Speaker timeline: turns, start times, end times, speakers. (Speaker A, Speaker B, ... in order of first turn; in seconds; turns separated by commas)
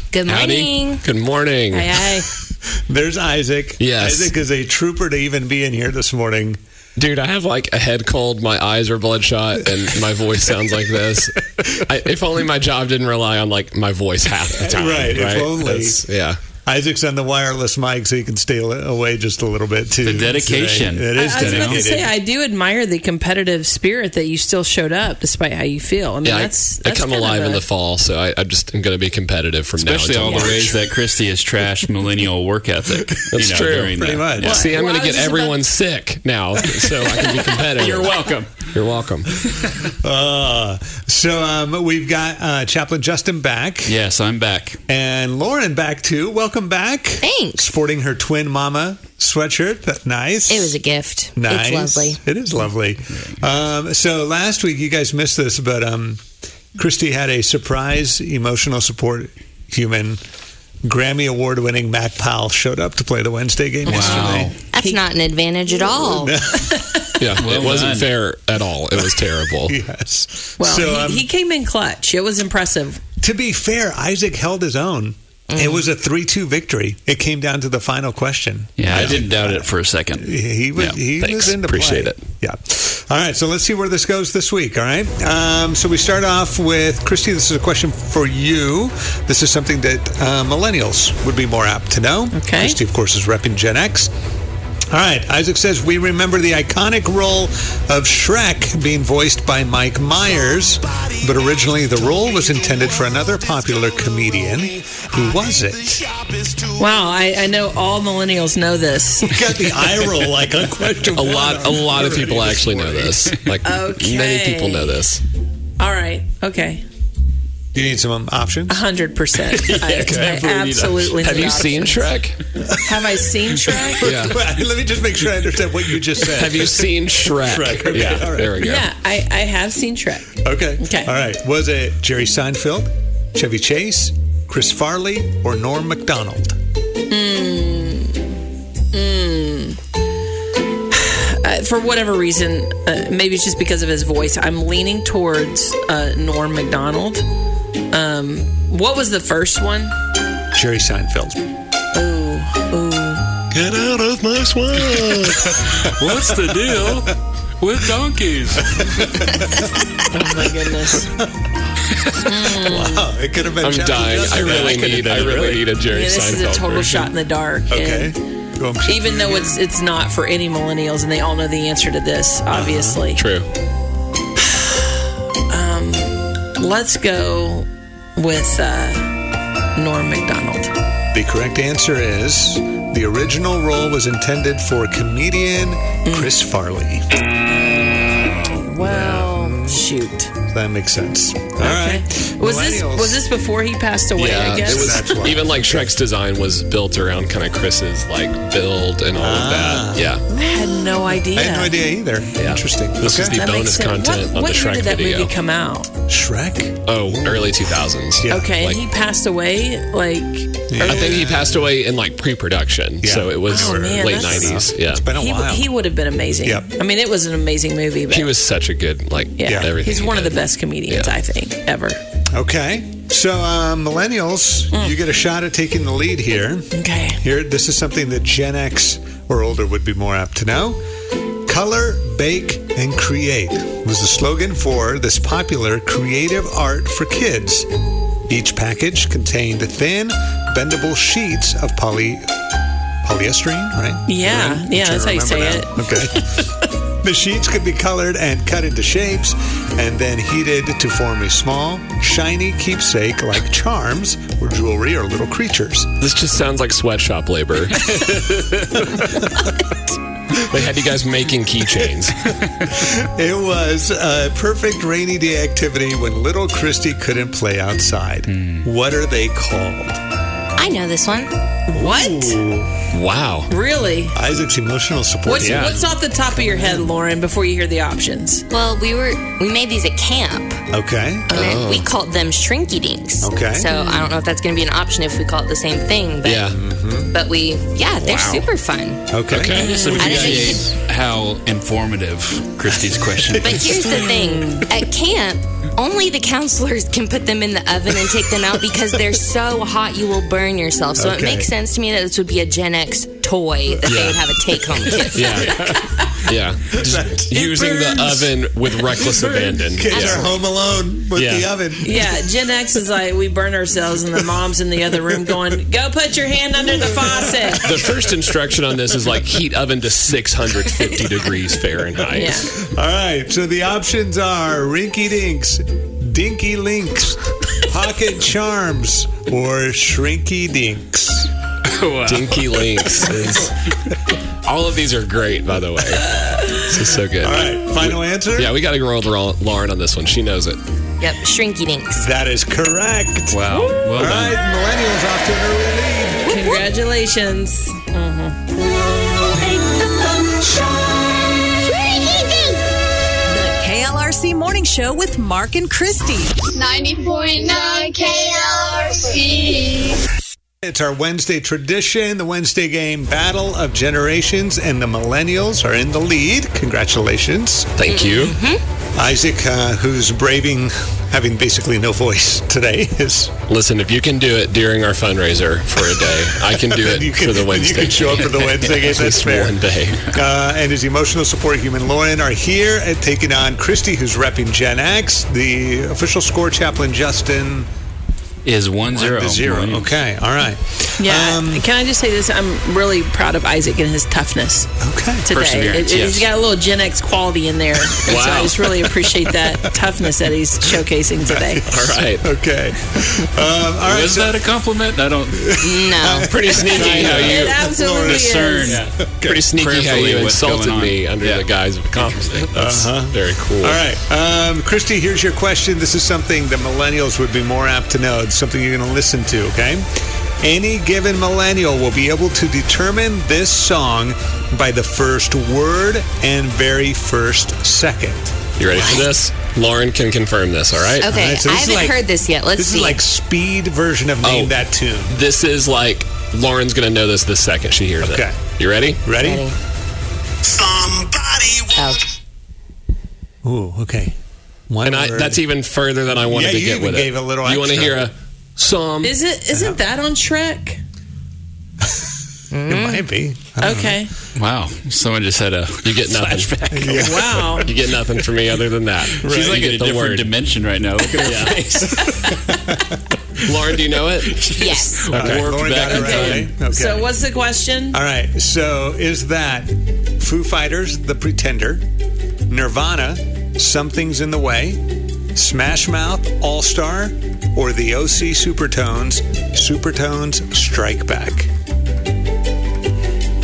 Speaker A: 0.1-1.0, Speaker B: 0.2-1.9, Speaker C: 1.7-2.3, Speaker D: 2.9-6.6, Speaker B: 3.8-4.3, Speaker B: 7.0-16.4, Speaker D: 14.6-16.0, Speaker D: 16.6-22.1, Speaker E: 20.0-21.9, Speaker C: 21.1-27.6, Speaker B: 26.2-30.8, Speaker E: 29.8-34.6, Speaker B: 33.3-38.1, Speaker D: 34.0-34.6, Speaker C: 34.5-35.6, Speaker D: 37.0-37.6, Speaker E: 37.7-38.7, Speaker B: 38.7-39.3, Speaker D: 39.8-44.0, Speaker E: 43.8-44.8, Speaker D: 44.9-50.7, Speaker A: 47.2-47.8, Speaker A: 50.5-52.2, Speaker D: 51.4-56.2, Speaker D: 56.7-60.2, Speaker D: 60.8-64.5, Speaker E: 63.9-64.5, Speaker C: 63.9-65.0, Speaker A: 64.7-66.3, Speaker D: 66.0-66.8, Speaker B: 67.2-69.7, Speaker E: 67.4-68.1, Speaker D: 69.0-71.3, Speaker C: 70.6-73.0, Speaker D: 73.2-94.1, Speaker A: 75.5-75.9, Speaker E: 78.8-81.0, Speaker B: 81.2-82.2, Speaker C: 92.3-92.8, Speaker D: 94.9-106.0, Speaker C: 106.8-109.3, Speaker D: 109.2-113.2, Speaker B: 111.1-115.2, Speaker C: 113.6-115.0, Speaker C: 115.8-116.8, Speaker D: 117.7-118.8, Speaker C: 118.7-122.2, Speaker E: 119.5-121.6, Speaker B: 121.1-122.4, Speaker C: 122.8-124.2, Speaker D: 123.8-128.6, Speaker B: 124.0-124.4, Speaker B: 126.3-128.9, Speaker C: 128.6-131.1, Speaker D: 130.4-136.6, Speaker C: 137.1-138.3, Speaker C: 138.9-139.8, Speaker C: 140.9-147.2, Speaker C: 147.9-149.9, Speaker D: 150.5-151.4, Speaker C: 151.9-153.2, Speaker B: 153.5-155.6, Speaker E: 155.5-159.3, Speaker D: 158.8-159.6, Speaker C: 160.1-161.1, Speaker D: 161.0-161.3, Speaker C: 162.2-163.1, Speaker D: 162.6-165.6, Speaker B: 163.6-167.1, Speaker E: 164.2-165.7, Speaker C: 165.8-168.1, Speaker D: 167.7-169.6, Speaker C: 168.8-173.2, Speaker D: 172.5-173.0, Speaker B: 173.1-173.5, Speaker C: 175.5-179.1, Speaker C: 179.8-180.7, Speaker D: 181.1-187.1, Speaker C: 186.0-186.3, Speaker C: 188.3-190.3, Speaker B: 188.8-189.3, Speaker D: 188.9-189.8, Speaker D: 190.4-193.2, Speaker C: 191.6-195.1, Speaker B: 194.2-200.2, Speaker D: 194.5-195.9, Speaker D: 199.2-200.1, Speaker C: 200.3-201.8, Speaker D: 201.3-203.4, Speaker B: 202.3-205.3, Speaker C: 203.3-205.9, Speaker D: 206.1-207.5, Speaker B: 206.8-208.8, Speaker D: 208.2-208.5, Speaker C: 208.3-211.1, Speaker D: 210.7-211.6, Speaker B: 210.8-215.1, Speaker D: 213.0-215.7, Speaker C: 213.4-214.6, Speaker C: 215.1-218.3, Speaker D: 216.4-216.7, Speaker B: 218.1-221.1, Speaker C: 219.4-222.0, Speaker D: 219.4-219.7, Speaker D: 222.3-230.8, Speaker C: 226.7-227.2, Speaker D: 231.4-237.7, Speaker D: 238.3-242.3, Speaker D: 243.0-246.5, Speaker C: 244.1-246.4, Speaker D: 247.0-255.9, Speaker B: 256.0-259.2, Speaker B: 260.3-262.2, Speaker D: 262.6-270.0, Speaker E: 268.3-268.6, Speaker A: 270.6-271.3, Speaker C: 271.7-272.4, Speaker D: 271.7-272.7, Speaker B: 272.9-273.5, Speaker C: 273.5-274.2, Speaker D: 274.1-275.8, Speaker C: 275.2-278.4, Speaker D: 276.4-276.8, Speaker A: 278.5-280.6, Speaker D: 280.7-281.3, Speaker C: 281.3-281.6, Speaker B: 281.3-281.9, Speaker A: 281.3-286.5, Speaker D: 283.2-283.7, Speaker C: 283.7-284.1, Speaker B: 286.2-286.6, Speaker D: 286.5-287.1, Speaker A: 287.1-289.1, Speaker E: 288.0-288.4, Speaker D: 289.1-290.7, Speaker B: 289.3-289.8, Speaker E: 289.4-293.8, Speaker C: 289.7-290.1, Speaker A: 289.9-290.7, Speaker D: 293.2-293.9, Speaker A: 293.4-305.4, Speaker C: 293.8-294.8, Speaker D: 301.0-301.5, Speaker B: 303.9-304.2, Speaker B: 305.1-310.3, Speaker D: 306.7-307.8, Speaker C: 307.4-308.2, Speaker D: 309.7-312.1, Speaker B: 311.1-311.5, Speaker C: 311.8-317.8, Speaker D: 317.2-317.9, Speaker B: 317.6-322.4, Speaker C: 322.1-322.5, Speaker D: 322.1-331.3, Speaker E: 331.6-333.1, Speaker B: 332.0-333.7, Speaker B: 334.4-340.6, Speaker D: 337.2-338.5, Speaker A: 341.0-342.0, Speaker D: 342.0-346.5, Speaker E: 343.3-344.4, Speaker C: 346.2-348.4, Speaker F: 353.3-356.4, Speaker G: 356.5-359.9, Speaker D: 360.6-367.8, Speaker B: 367.8-368.4, Speaker A: 367.9-368.6, Speaker D: 368.9-373.4, Speaker B: 373.5-380.1, Speaker D: 375.9-379.6, Speaker D: 380.1-387.7, Speaker E: 388.4-390.0, Speaker D: 388.9-391.6, Speaker C: 391.0-394.7, Speaker D: 394.8-395.3, Speaker C: 395.2-401.6, Speaker E: 395.3-396.3, Speaker B: 398.1-398.6, Speaker D: 401.3-404.4, Speaker B: 401.7-402.3, Speaker E: 403.8-405.6, Speaker D: 405.4-409.5, Speaker A: 405.6-406.4, Speaker B: 406.2-413.8, Speaker C: 406.7-408.8, Speaker E: 406.9-407.4, Speaker E: 408.0-412.4, Speaker D: 412.5-419.9, Speaker D: 420.4-428.9, Speaker B: 428.6-431.1, Speaker A: 428.7-429.1, Speaker A: 431.0-433.0, Speaker D: 431.0-432.0, Speaker D: 432.6-435.2, Speaker B: 434.2-439.0, Speaker D: 438.0-438.4, Speaker D: 439.0-439.5, Speaker A: 439.2-439.6, Speaker A: 441.7-442.0, Speaker D: 443.4-444.1, Speaker D: 444.7-445.4, Speaker B: 444.8-449.2, Speaker D: 446.3-448.1, Speaker C: 449.0-450.8, Speaker A: 452.5-453.0, Speaker D: 452.7-454.0, Speaker C: 453.6-454.1, Speaker E: 454.3-457.4, Speaker B: 455.8-456.6, Speaker D: 456.2-457.7, Speaker C: 456.9-457.7, Speaker B: 457.6-460.3, Speaker D: 459.2-459.6, Speaker E: 459.2-462.4, Speaker B: 461.2-461.7, Speaker D: 462.2-462.8, Speaker B: 463.4-464.5, Speaker E: 464.4-466.5, Speaker A: 464.5-465.1, Speaker B: 465.1-465.5, Speaker D: 465.1-467.2, Speaker C: 465.8-468.0, Speaker D: 467.9-471.8, Speaker D: 472.5-474.8, Speaker D: 475.3-481.5